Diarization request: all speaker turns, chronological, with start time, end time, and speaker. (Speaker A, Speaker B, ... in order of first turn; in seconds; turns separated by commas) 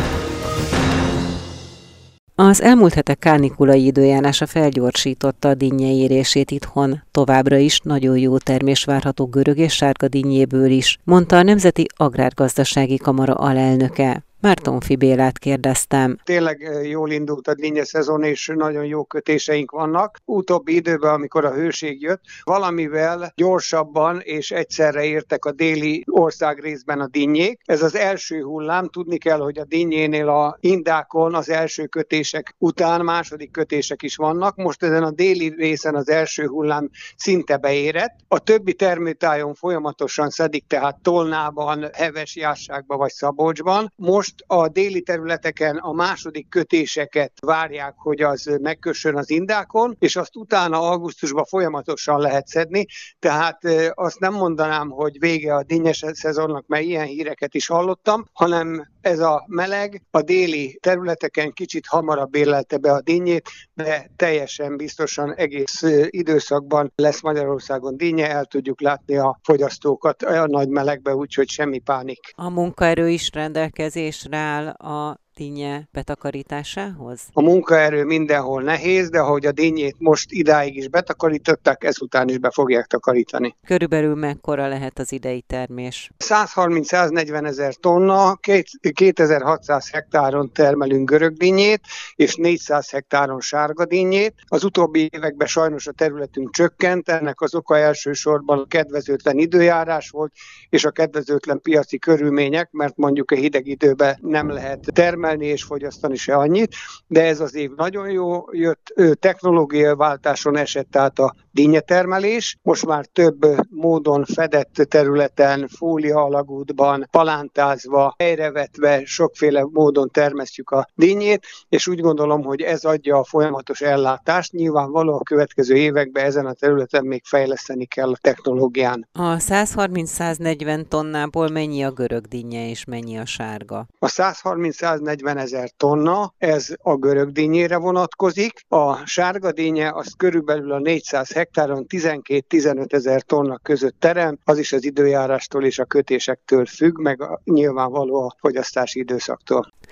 Speaker A: 2.4-16.2, Speaker B: 16.2-72.3, Speaker A: 72.4-77.3, Speaker B: 77.3-83.5, Speaker A: 83.7-86.1, Speaker B: 86.2-129.1, Speaker A: 129.2-133.9, Speaker B: 134.0-149.7